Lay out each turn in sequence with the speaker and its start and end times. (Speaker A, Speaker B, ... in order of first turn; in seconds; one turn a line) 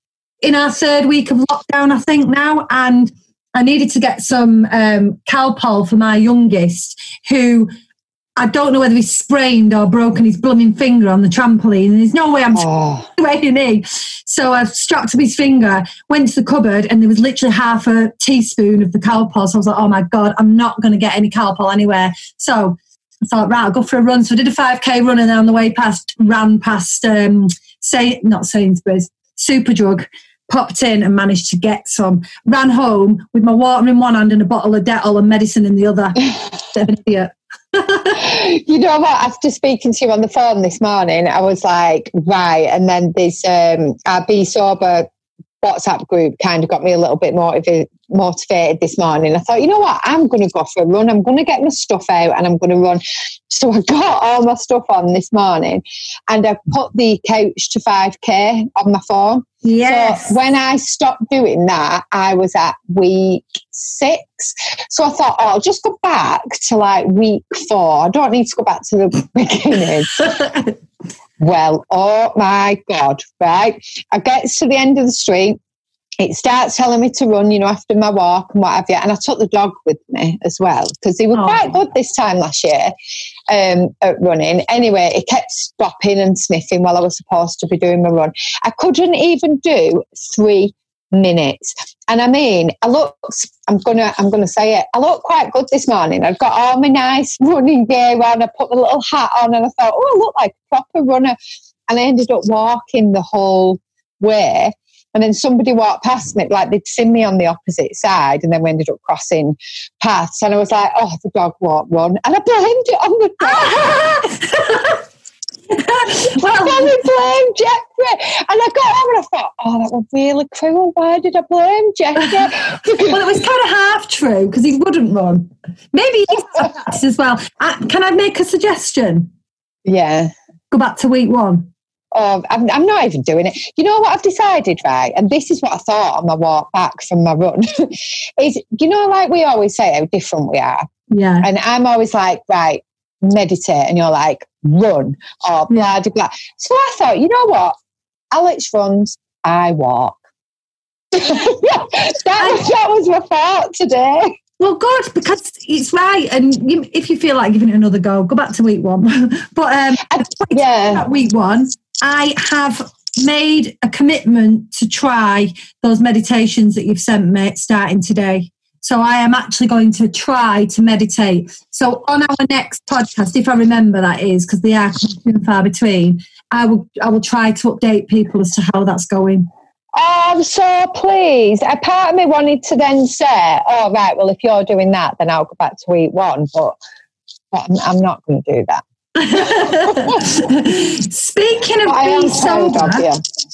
Speaker A: 0.4-7.7
Speaker A: 8.4-38.2
Speaker B: 12.6-13.1
Speaker B: 38.2-45.1
Speaker B: 45.6-70.5
Speaker A: 59.6-60.4
Speaker B: 71.4-75.6
Speaker B: 76.2-82.9
Speaker A: 81.3-81.8
Speaker B: 83.5-101.4
Speaker B: 101.9-114.2
Speaker A: 113.5-115.0
Speaker A: 115.7-117.0
Speaker B: 116.2-123.2
Speaker A: 123.0-129.3
Speaker B: 129.9-130.3
Speaker A: 130.7-131.7
Speaker B: 132.1-140.9
Speaker A: 141.1-141.5
Speaker B: 141.4-147.8
Speaker B: 148.3-150.2
Speaker B: 151.1-154.4
Speaker A: 152.4-152.7
Speaker A: 154.6-179.5
Speaker B: 160.1-161.0
Speaker B: 179.9-186.8
Speaker B: 187.5-188.8
Speaker A: 189.2-193.1
Speaker B: 189.9-190.3
Speaker B: 191.9-193.2